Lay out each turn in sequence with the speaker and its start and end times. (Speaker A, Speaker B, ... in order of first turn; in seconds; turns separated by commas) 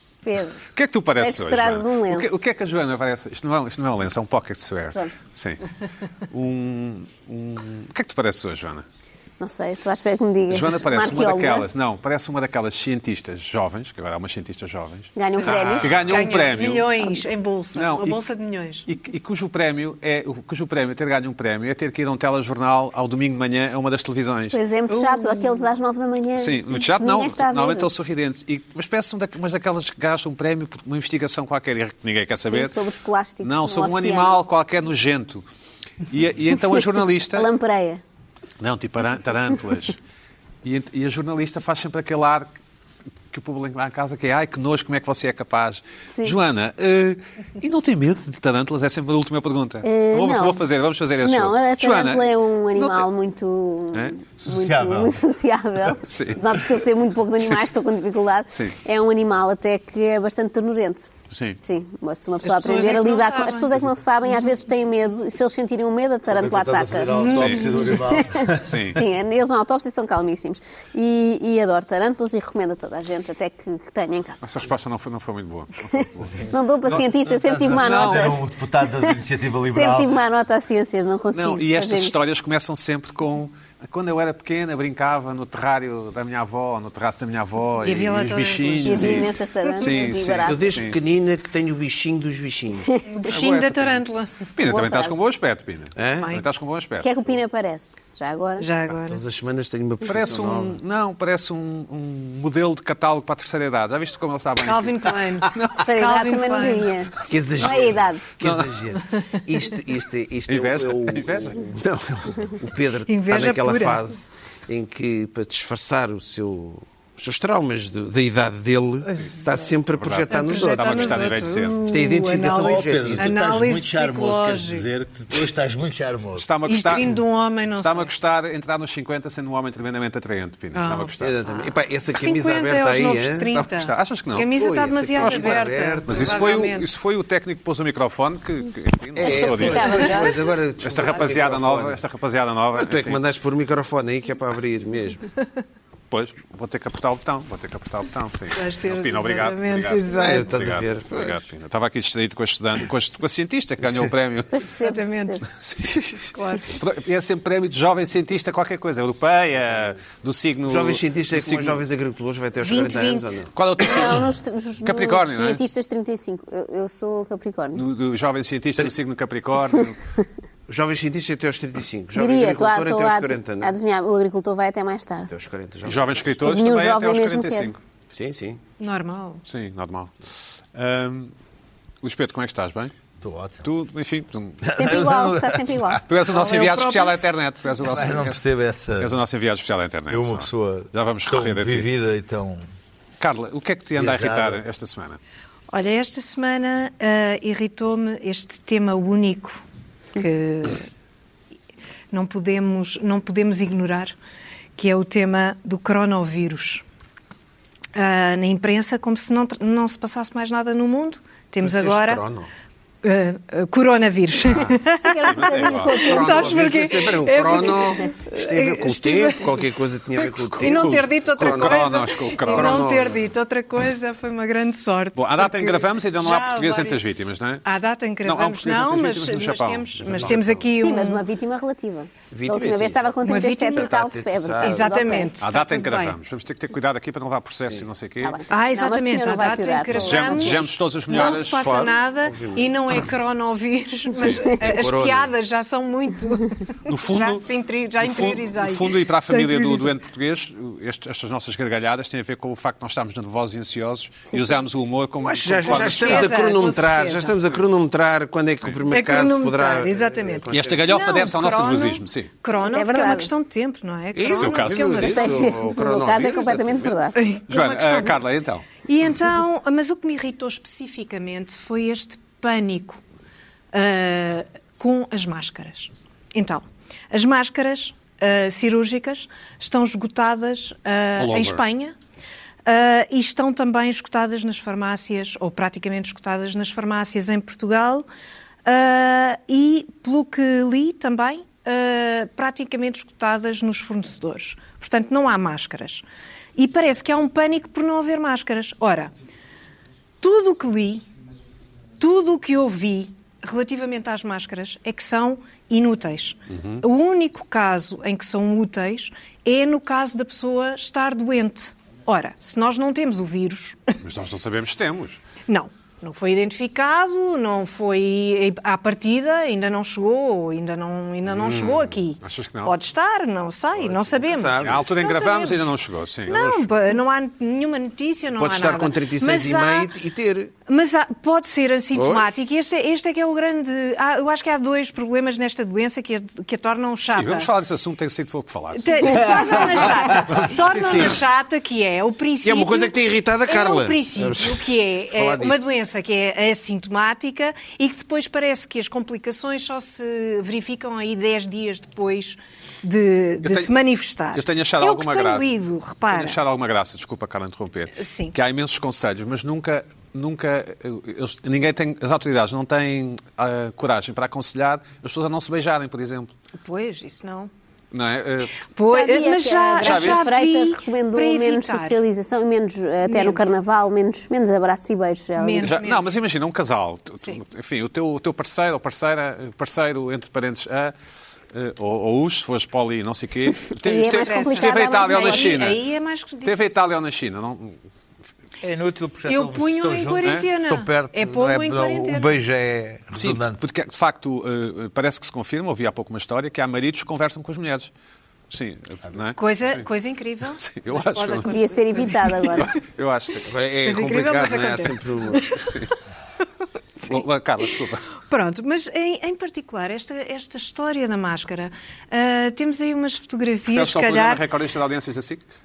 Speaker A: 0.2-0.6, Speaker B: 0.7-5.6, Speaker A: 1.2-2.4, Speaker B: 6.3-8.8, Speaker A: 9.4-11.7, Speaker B: 10.5-15.1, Speaker A: 15.2-16.0, Speaker C: 15.4-16.1, Speaker B: 15.8-16.9, Speaker D: 16.1-18.9, Speaker B: 17.7-18.2, Speaker B: 18.9-24.6, Speaker A: 24.5-27.9, Speaker D: 24.9-25.7, Speaker B: 26.4-32.8, Speaker A: 32.5-34.4, Speaker B: 33.4-35.4, Speaker B: 36.1-37.5, Speaker A: 37.3-38.0, Speaker B: 38.6-40.0, Speaker B: 40.6-42.5, Speaker B: 43.3-53.1, Speaker A: 46.1-46.4, Speaker A: 49.8-50.6, Speaker A: 51.2-74.4, Speaker E: 54.5-55.2, Speaker B: 56.0-56.5, Speaker B: 61.3-61.6, Speaker D: 62.4-63.8, Speaker E: 66.3-69.0, Speaker D: 67.1-68.0, Speaker B: 67.3-67.8, Speaker B: 68.6-69.0, Speaker B: 74.4-76.5, Speaker A: 76.5-78.4, Speaker E: 76.8-80.2, Speaker B: 77.8-78.4, Speaker A: 79.7-82.2, Speaker B: 81.3-91.0, Speaker D: 87.8-89.4, Speaker A: 88.8-90.8, Speaker C: 90.5-93.0, Speaker D: 93.1-94.3, Speaker B: 93.2-94.0, Speaker B: 94.5-97.1, Speaker A: 94.6-95.2, Speaker C: 96.0-96.3, Speaker A: 97.0-98.7, Speaker D: 98.6-99.2, Speaker C: 98.9-100.8, Speaker B: 100.0-105.9, Speaker D: 104.6-106.9, Speaker A: 105.8-108.2, Speaker C: 107.2-123.3, Speaker B: 108.4-108.8, Speaker B: 110.5-111.6, Speaker D: 113.1-114.0, Speaker D: 119.1-119.6, Speaker B: 119.9-121.8, Speaker D: 120.3-124.9, Speaker E: 122.5-126.5, Speaker B: 126.3-127.2, Speaker D: 126.7-128.1, Speaker B: 127.7-131.3, Speaker D: 130.7-136.9, Speaker C: 131.2-133.5, Speaker B: 133.5-134.5, Speaker C: 134.4-136.5, Speaker B: 135.1-140.2, Speaker C: 139.2-142.0, Speaker A: 139.2-140.5, Speaker B: 140.8-143.2, Speaker C: 142.8-145.2, Speaker B: 146.1-154.6, Speaker D: 148.5-150.5, Speaker C: 150.1-151.4, Speaker A: 154.5-155.4, Speaker D: 154.8-155.4, Speaker B: 155.5-161.8, Speaker D: 156.2-156.7, Speaker C: 160.7-163.5, Speaker D: 162.6-163.3, Speaker B: 163.5-164.3, Speaker A: 163.8-167.8, Speaker B: 164.8-165.6, Speaker B: 167.7-170.0, Speaker C: 170.7-173.7, Speaker A: 172.2-175.3, Speaker C: 175.3-176.3, Speaker B: 175.8-177.8, Speaker A: 176.4-177.7, Speaker C: 178.1-178.6, Speaker D: 178.8-179.4, Speaker B: 179.4-181.3, Speaker B: 182.0-182.9, Speaker E: 183.2-183.7, Speaker B: 183.6-184.6, Speaker E: 184.6-186.0, Speaker A: 184.8-186.0, Speaker B: 186.1-188.4, Speaker D: 186.3-187.2, Speaker E: 187.8-189.1, Speaker B: 189.0-191.9, Speaker E: 190.1-192.7, Speaker B: 193.2-195.2, Speaker E: 193.9-194.6, Speaker D: 195.7-199.6, Speaker D: 200.2-200.9, Speaker D: 202.1-204.1, Speaker D: 204.8-206.8, Speaker D: 207.9-212.2, Speaker C: 211.6-212.5, Speaker D: 213.0-219.7, Speaker C: 214.5-214.8, Speaker A: 214.9-216.5, Speaker B: 215.2-216.1, Speaker C: 215.7-223.2, Speaker B: 220.2-222.9, Speaker D: 220.6-227.0, Speaker B: 225.1-227.6, Speaker D: 227.6-231.2, Speaker B: 228.2-230.5, Speaker C: 230.1-230.6, Speaker A: 230.8-235.3, Speaker C: 232.3-235.2, Speaker D: 233.2-233.9, Speaker D: 234.6-236.2, Speaker B: 235.4-238.4, Speaker A: 238.2-240.7, Speaker D: 238.5-249.9, Speaker B: 239.9-241.7, Speaker C: 241.1-243.0, Speaker C: 244.2-245.3, Speaker B: 246.8-247.5, Speaker B: 248.0-256.4, Speaker A: 254.3-254.6, Speaker C: 255.2-260.8, Speaker D: 255.7-257.4, Speaker D: 258.9-265.4, Speaker B: 260.5-262.3, Speaker A: 262.6-263.3, Speaker C: 264.1-267.0, Speaker B: 264.3-265.1, Speaker A: 265.0-267.2, Speaker D: 267.1-268.2, Speaker B: 267.5-268.6, Speaker D: 268.8-273.0, Speaker D: 273.7-281.9, Speaker B: 281.2-281.6, Speaker D: 282.6-288.1, Speaker D: 288.6-296.0, Speaker D: 296.6-299.1, Speaker D: 300.2-301.1, Speaker D: 302.0-313.9, Speaker B: 306.5-306.8, Speaker B: 314.0-315.2, Speaker D: 315.5-325.7, Speaker B: 321.3-322.7, Speaker C: 323.9-324.8, Speaker B: 324.5-326.5, Speaker D: 326.3-330.0, Speaker C: 326.3-326.6, Speaker C: 328.3-330.5, Speaker D: 330.7-337.5, Speaker C: 331.9-332.3, Speaker B: 337.1-339.6, Speaker D: 338.8-356.4, Speaker E: 339.1-340.5, Speaker C: 340.4-341.2, Speaker C: 342.4-345.6, Speaker B: 353.4-353.7, Speaker B: 354.3-355.5, Speaker B: 356.1-366.3, Speaker D: 358.0-358.3, Speaker D: 366.6-367.5, Speaker B: 367.9-368.6, Speaker D: 368.8-372.0, Speaker A: 368.9-375.8, Speaker B: 369.8-370.3, Speaker D: 373.0-373.5, Speaker D: 375.4-376.1, Speaker B: 375.6-380.9, Speaker B: 381.5-385.8, Speaker A: 383.8-385.7, Speaker D: 384.0-386.7, Speaker B: 386.4-387.8, Speaker E: 388.6-393.6, Speaker D: 389.3-392.4, Speaker B: 393.1-397.9, Speaker B: 398.5-399.8, Speaker D: 399.4-402.6, Speaker B: 400.5-403.5, Speaker A: 401.5-402.7, Speaker C: 403.5-405.5, Speaker D: 403.8-405.7, Speaker B: 405.5-405.9, Speaker B: 407.0-408.1, Speaker D: 408.2-414.4, Speaker B: 413.7-415.4